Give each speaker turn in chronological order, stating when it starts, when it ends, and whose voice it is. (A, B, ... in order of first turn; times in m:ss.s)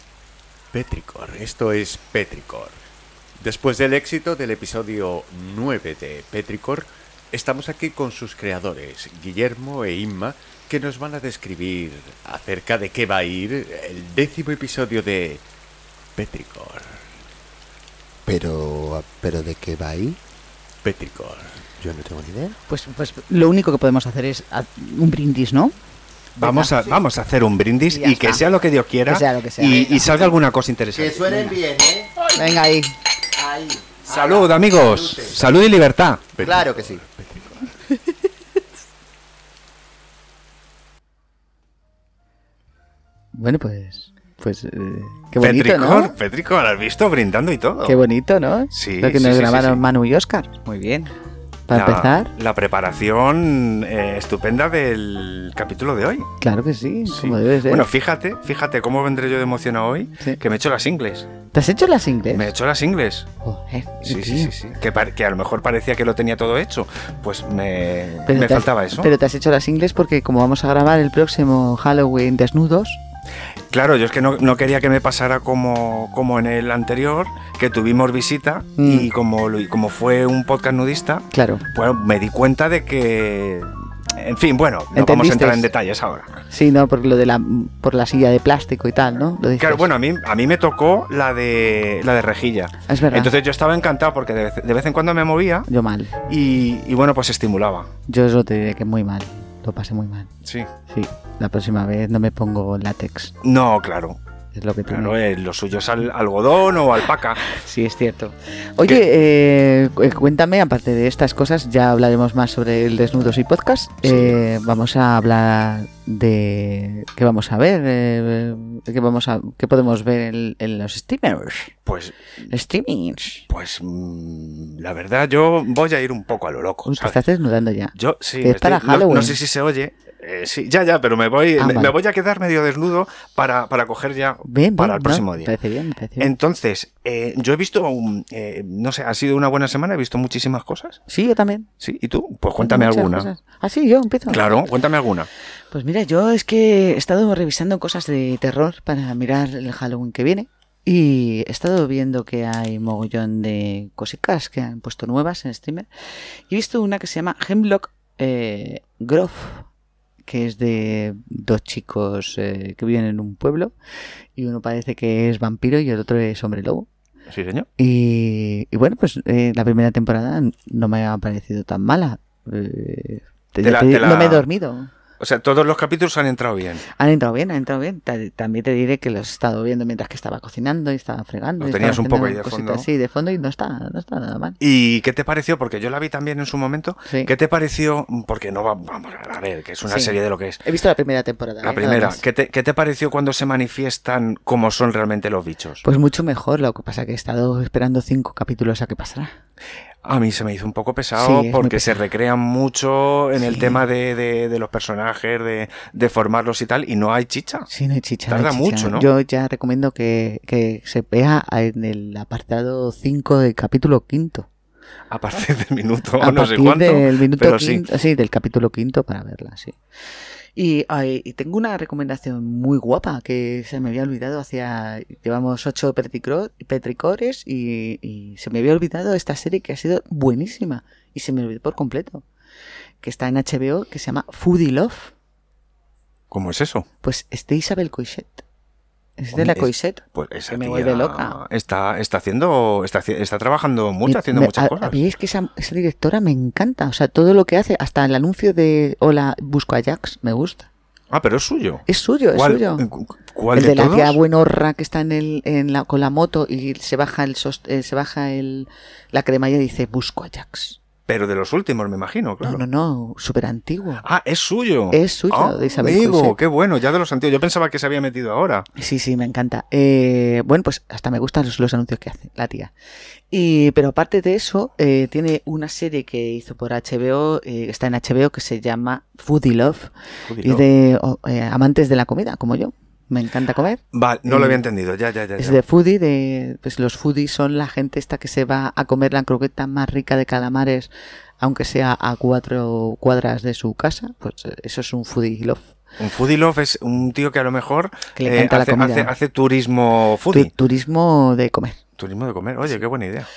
0:00.7-0:02.8 A
0:03.4-0:15.4 A
0:16.2-0:17.0 A
0:18.3-0:20.2 B
0:20.8-0:21.6 A
0:21.8-0:22.6 B
0:22.7-0:25.7 C
0:26.4-0:31.6 D
0:26.4-0:27.0 C
0:27.9-0:28.4 C
0:29.0-0:30.0 C
0:29.6-0:30.2 B
0:30.9-0:32.2 B
0:32.3-0:32.9 C
0:33.3-0:35.5 B
0:34.0-0:36.2 D
0:36.4-0:37.7 A
0:36.4-0:37.0 B
0:43.3-0:46.1 C
0:45.4-0:48.0 D
0:47.8-0:51.1 C
0:48.7-0:49.8 D
0:51.7-0:52.3 C
0:51.7-0:56.3 D
0:56.4-0:57.8 C
0:57.1-1:01.3 D
1:01.5-1:02.5 C
1:02.3-1:03.3 D
1:03.4-1:04.5 C
1:04.0-1:09.1 D
1:08.3-1:13.0 C
1:13.7-1:26.4 D
1:18.8-1:19.1 C
1:21.3-1:21.6 C
1:24.9-1:25.7 C
1:26.5-1:29.9 C
1:29.6-1:35.7 D
1:32.9-1:33.3 C
1:35.7-1:36.2 C
1:36.3-1:37.9 D
1:38.1-1:40.3 C
1:40.4-1:40.7 D
1:40.9-1:43.3 C
1:43.4-1:44.2 D
1:44.5-1:45.2 C
1:44.9-1:47.4 D
1:47.4-2:01.7 C
1:54.0-1:54.4 D
2:01.8-2:02.2 D
2:02.5-2:03.4 C
2:03.5-2:07.2 D
2:06.9-2:09.4 C
2:08.0-2:15.5 D
2:11.6-2:12.0 C
2:14.4-2:16.3 C
2:16.2-2:21.0 D
2:21.1-2:21.7 C
2:21.8-2:23.3 D
2:22.6-2:24.7 C
2:24.3-2:25.3 D
2:25.7-2:39.7 C
2:40.2-2:43.7 C
2:44.4-2:46.9 C
2:47.3-2:47.7 D
2:47.8-2:54.9 C
2:53.6-2:54.4 D
2:55.2-2:56.8 D
2:57.0-3:04.6 C
3:01.6-3:02.9 D
3:04.6-3:10.6 D
3:09.9-3:12.2 C
3:11.6-3:15.8 D
3:15.8-3:19.3 C
3:20.0-3:27.7 D
3:21.2-3:22.0 C
3:23.4-3:23.8 C
3:27.7-3:34.5 C
3:28.3-3:29.1 D
3:35.1-3:37.8 D
3:36.2-3:39.8 C
3:40.6-3:52.2 C
3:53.0-3:55.1 C
3:56.3-3:56.9 D
3:57.0-3:58.4 C
3:59.2-4:01.4 C
3:59.3-4:05.0 D
4:04.0-4:10.7 C
4:11.1-4:14.2 D
4:11.9-4:12.8 C
4:13.5-4:20.8 C
4:21.1-4:22.6 D
4:22.4-4:24.0 C
4:24.0-4:28.7 D
4:24.9-4:26.4 C
4:28.8-4:32.7 C
4:33.3-4:44.6 C
4:40.2-4:40.6 D
4:43.9-4:45.6 D
4:45.4-4:50.9 C
4:51.4-4:55.7 C
4:56.0-5:00.5 D
4:58.2-4:59.1 C
5:00.3-5:01.8 C
5:02.0-5:03.3 D